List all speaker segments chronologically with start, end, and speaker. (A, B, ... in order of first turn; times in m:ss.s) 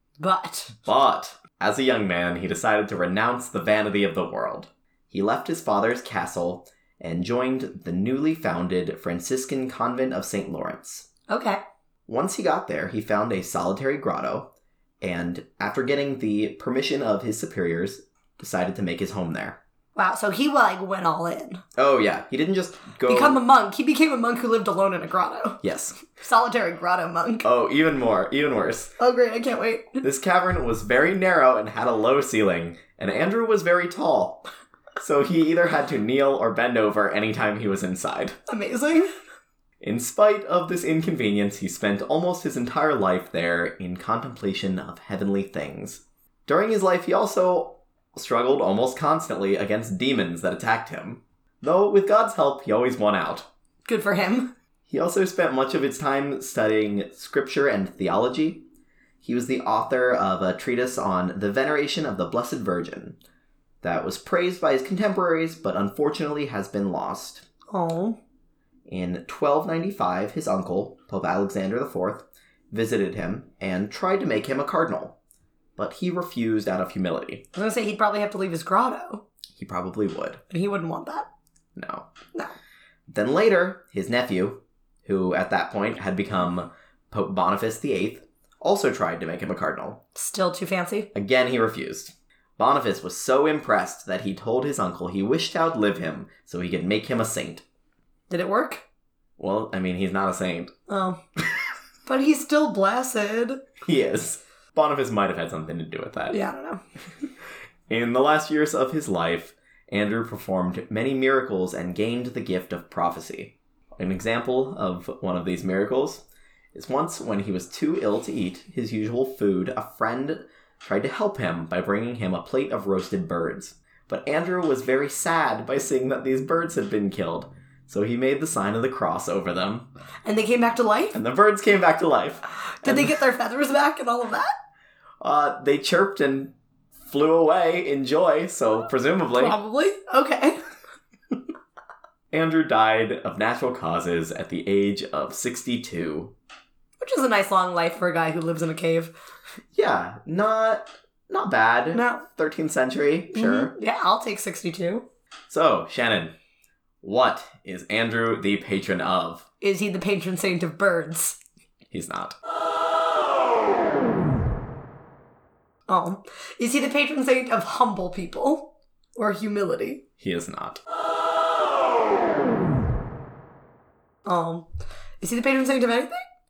0:00.2-0:00.8 A
0:00.8-0:11.1 B
0:11.3-0:11.6 A
0:12.1-0:19.6 B
0:20.0-0:21.6 A
0:21.8-0:23.4 B
0:23.1-0:27.5 A
0:25.6-0:26.0 B
0:27.4-0:28.9 B
0:29.0-0:30.0 A
0:30.0-0:34.4 B
0:35.0-0:38.4 B
0:38.5-0:39.1 A
0:39.8-0:53.5 B
0:53.9-0:54.5 A
0:54.9-0:58.7 B
0:59.2-1:03.2 B
1:03.8-1:07.5 B
1:07.7-1:08.2 A
1:08.9-1:15.2 B
1:15.8-1:17.4 B
1:17.5-1:19.2 A
1:19.5-1:20.4 B
1:20.5-1:21.3 A
1:21.8-1:22.1 B
1:23.1-1:30.0 B
1:30.2-1:31.1 A
1:31.1-1:37.6 B
1:38.3-1:38.8 A
1:39.4-1:40.7 B
1:40.9-1:41.2 A
1:42.1-1:43.6 A
1:43.8-1:46.4 B
1:46.3-1:46.8 A
1:47.9-2:09.9 B
2:10.2-2:11.2 A
2:11.1-2:13.2 B
2:12.8-2:14.5 A
2:15.2-2:19.6 B
2:19.4-2:20.6 A
2:22.3-2:26.3 B
2:27.0-2:29.1 A
2:29.7-2:33.7 B
2:31.9-2:32.2 A
2:33.3-2:35.1 A
2:35.5-2:36.4 B
2:37.0-2:39.4 B
2:39.6-2:41.4 A
2:41.9-2:42.4 B
2:45.9-2:50.0 A
2:50.2-2:50.8 B
2:54.3-2:54.7 A
2:55.2-2:56.2 A